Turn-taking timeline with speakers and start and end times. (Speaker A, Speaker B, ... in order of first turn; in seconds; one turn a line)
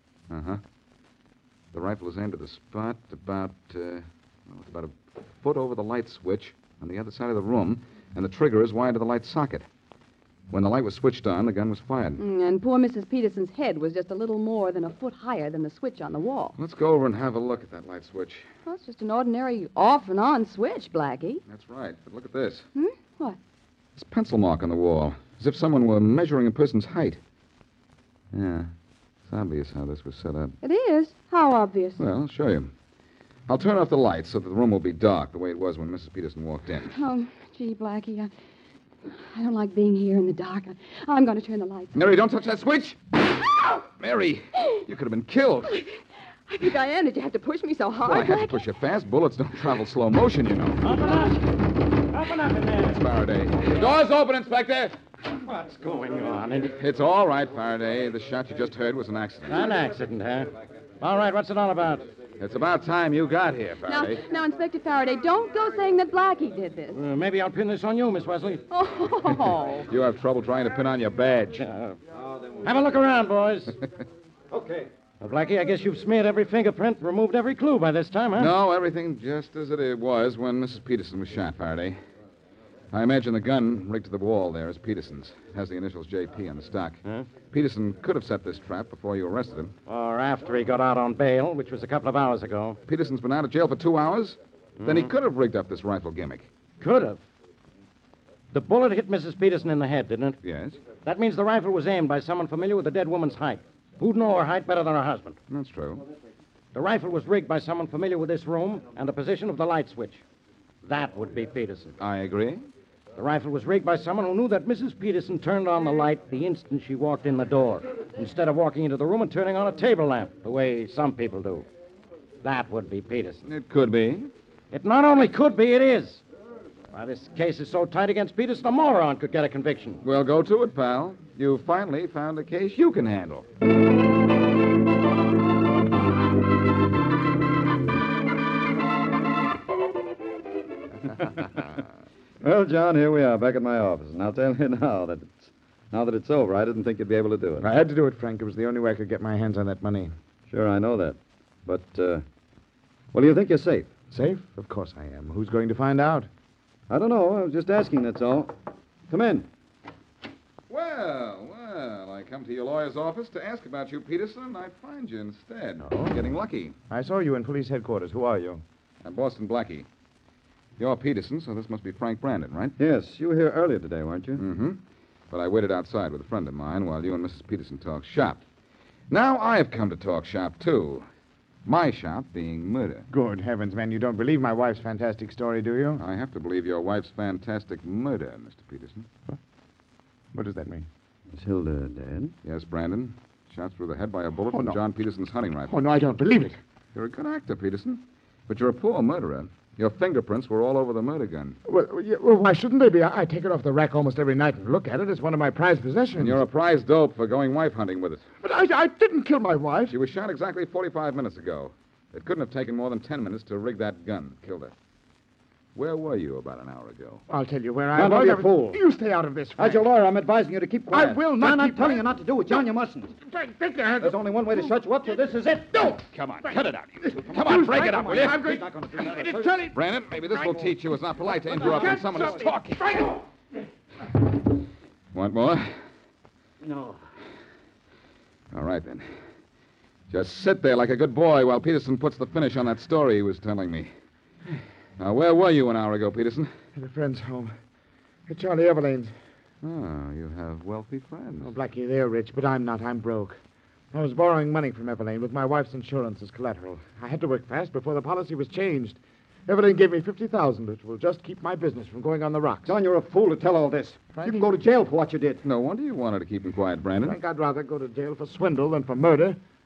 Speaker A: 0.3-0.6
Speaker A: 1.7-9.7
Speaker A: 10.5-12.2
Speaker B: 12.2-16.6
Speaker A: 16.6-18.5
Speaker B: 18.6-21.4
Speaker A: 21.4-22.7
Speaker B: 22.7-23.4
Speaker A: 23.9-27.2
Speaker A: 28.3-28.7
Speaker A: 29.3-30.5
Speaker B: 30.6-32.0
Speaker A: 32.0-32.7
Speaker A: 33.5-36.9
Speaker B: 36.9-38.3
Speaker B: 39.0-42.0
Speaker A: 41.9-45.8
Speaker B: 45.6-48.6
Speaker A: 48.0-50.8
Speaker C: 50.8-53.0
Speaker A: 52.9-55.0
Speaker C: 55.4-56.7
Speaker A: 56.7-59.7
Speaker C: 59.5-62.1
Speaker A: 62.4-64.2
Speaker B: 63.9-67.0
Speaker C: 66.9-68.6
Speaker B: 68.7-69.9
Speaker A: 69.8-71.6
Speaker C: 71.6-72.0
Speaker D: 72.2-72.7
Speaker C: 72.6-73.8
Speaker D: 74.5-74.9
Speaker C: 75.2-78.5
Speaker A: 78.4-82.0
Speaker A: 82.9-89.7
Speaker C: 89.9-92.8
Speaker A: 92.9-96.5
Speaker C: 94.8-95.1
Speaker C: 96.8-97.2
Speaker C: 98.5-100.4
Speaker A: 100.4-100.8
Speaker C: 101.0-105.4
Speaker A: 105.5-106.0
Speaker C: 106.7-110.2
Speaker C: 110.8-111.9
Speaker A: 112.0-112.7
Speaker C: 113.2-121.6
Speaker C: 122.4-123.4
Speaker A: 123.4-124.3
Speaker C: 124.7-126.2
Speaker C: 126.9-130.0
Speaker A: 130.0-133.4
Speaker D: 142.4-147.7
Speaker E: 147.6-150.1
Speaker D: 150.5-152.2
Speaker D: 153.1-153.9
Speaker E: 154.1-156.3
Speaker D: 156.9-158.5
Speaker D: 159.1-159.5
Speaker A: 160.7-166.7
Speaker E: 165.8-166.3
Speaker E: 166.9-168.6
Speaker A: 169.0-169.9
Speaker A: 170.8-172.8
Speaker D: 172.8-174.4
Speaker A: 174.4-178.4
Speaker A: 179.1-181.1
Speaker A: 181.7-183.1
Speaker E: 183.1-186.0
Speaker A: 186.0-189.1
Speaker E: 190.3-190.9
Speaker D: 191.3-192.3
Speaker A: 192.4-195.7
Speaker E: 194.5-194.8
Speaker E: 195.7-196.6
Speaker A: 196.9-201.6
Speaker E: 201.7-206.4
Speaker A: 206.2-208.2
Speaker E: 208.4-209.9
Speaker A: 209.8-214.7
Speaker A: 215.7-217.2
Speaker E: 217.3-219.8
Speaker D: 217.9-218.8
Speaker D: 219.6-223.1
Speaker E: 220.9-222.6
Speaker E: 223.2-225.2
Speaker D: 224.0-226.0
Speaker E: 225.7-230.7
Speaker A: 226.1-228.4
Speaker D: 227.3-229.7
Speaker A: 229.7-233.0
Speaker E: 231.5-233.2
Speaker D: 231.5-232.4
Speaker A: 235.1-235.8
Speaker D: 236.6-237.0
Speaker A: 238.5-239.1
Speaker A: 240.1-243.9
Speaker A: 245.0-246.5
Speaker E: 246.7-247.5
Speaker E: 248.3-249.1
Speaker A: 249.6-251.5
Speaker E: 251.4-253.4
Speaker E: 253.9-262.7
Speaker D: 262.6-265.4
Speaker E: 264.1-264.5
Speaker A: 265.4-267.1
Speaker E: 267.0-269.4